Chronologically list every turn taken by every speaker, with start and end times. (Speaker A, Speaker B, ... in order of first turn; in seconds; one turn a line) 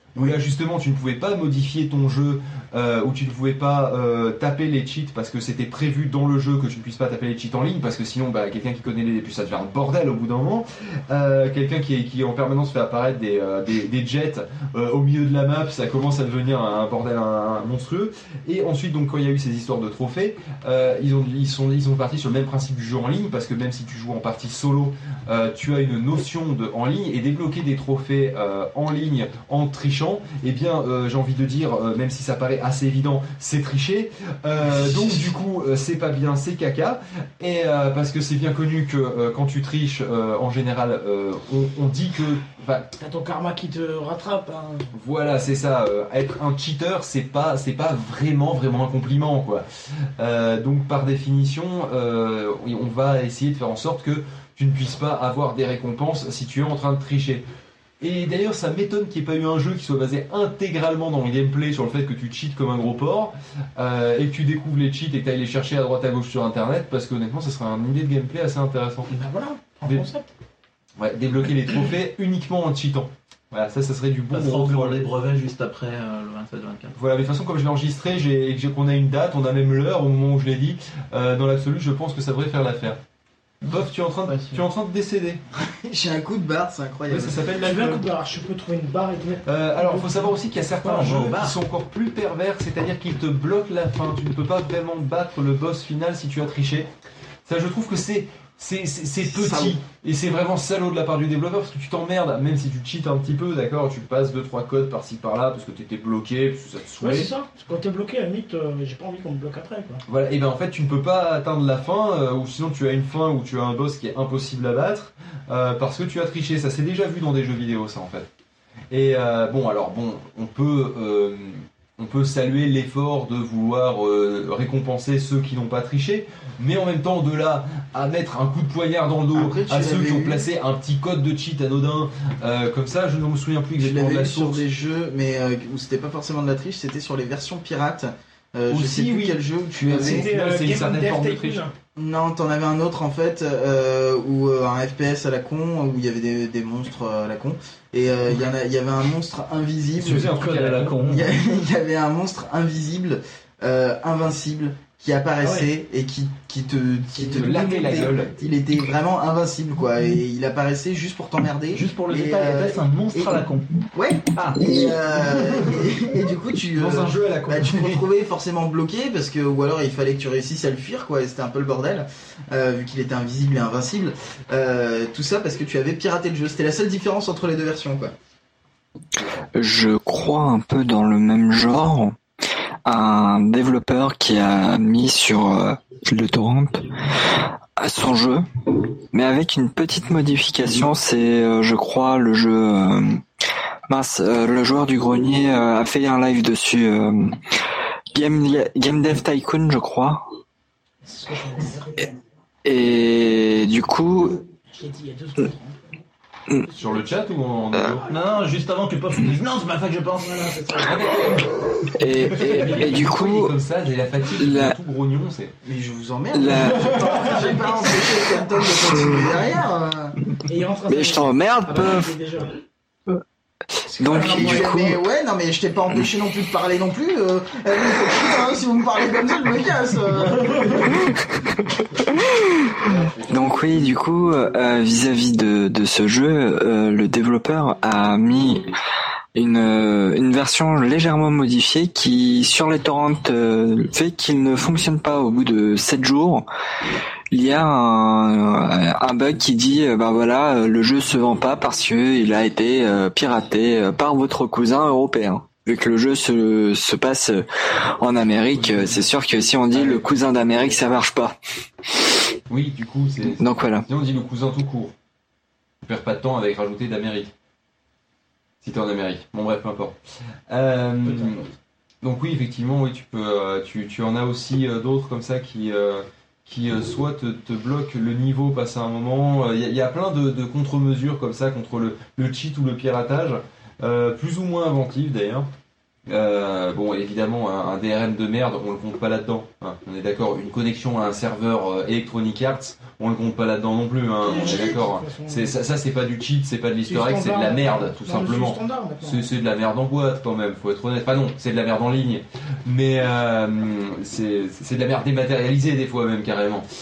Speaker A: 0.2-42.9
Speaker B: 43.0-44.9
Speaker A: 44.9-49.6
Speaker A: 50.2-57.4
Speaker A: 58.0-69.1
Speaker B: 69.1-70.3
Speaker A: 71.0-75.1
Speaker C: 74.3-77.0
Speaker A: 76.9-83.0
Speaker C: 83.6-84.6
Speaker A: 83.7-85.4
Speaker D: 85.6-87.4
Speaker A: 87.1-88.1
Speaker B: 87.6-90.3
Speaker A: 89.4-96.9
Speaker C: 90.8-91.5
Speaker A: 97.5-107.3
Speaker D: 99.2-99.8
Speaker B: 107.0-110.0
Speaker A: 110.1-118.3
Speaker A: 118.9-134.6
Speaker D: 129.3-130.4
Speaker D: 133.8-140.3
Speaker A: 138.7-141.6
Speaker B: 139.9-141.7
Speaker D: 141.9-150.4
Speaker A: 150.0-151.0
Speaker C: 150.0-151.3
Speaker D: 151.0-178.1
Speaker A: 157.2-158.3
Speaker C: 161.7-163.8
Speaker C: 164.3-164.7
Speaker A: 165.3-165.8
Speaker A: 166.7-168.1
Speaker E: 179.5-182.2
Speaker E: 182.8-186.8
Speaker E: 187.8-188.4
Speaker E: 189.1-193.2
Speaker E: 193.9-197.3
Speaker E: 198.1-200.2
Speaker B: 201.0-202.2
Speaker E: 202.6-204.4
Speaker B: 204.7-205.8
Speaker A: 206.7-208.1
Speaker C: 208.1-210.9
Speaker B: 210.2-211.0
Speaker A: 210.9-211.4
Speaker E: 211.9-213.6
Speaker A: 212.3-215.5
Speaker B: 212.6-212.9
Speaker E: 214.4-214.8
Speaker D: 215.6-220.1
Speaker E: 216.3-217.3
Speaker B: 220.5-222.5
Speaker E: 220.9-222.1
Speaker B: 223.9-224.6
Speaker E: 224.0-225.0
Speaker D: 224.1-231.1
Speaker D: 232.8-233.1
Speaker A: 232.9-233.8
Speaker E: 233.3-238.6
Speaker E: 239.3-246.4
Speaker E: 247.3-257.4
Speaker E: 258.0-261.4
Speaker A: 258.5-260.8
Speaker A: 262.5-264.9
Speaker E: 263.4-263.8
Speaker A: 265.8-267.3
Speaker A: 268.6-269.9
Speaker A: 270.5-271.4
Speaker C: 271.0-271.4
Speaker A: 272.0-285.5
Speaker A: 286.1-306.6
Speaker B: 294.2-295.5
Speaker B: 296.9-299.3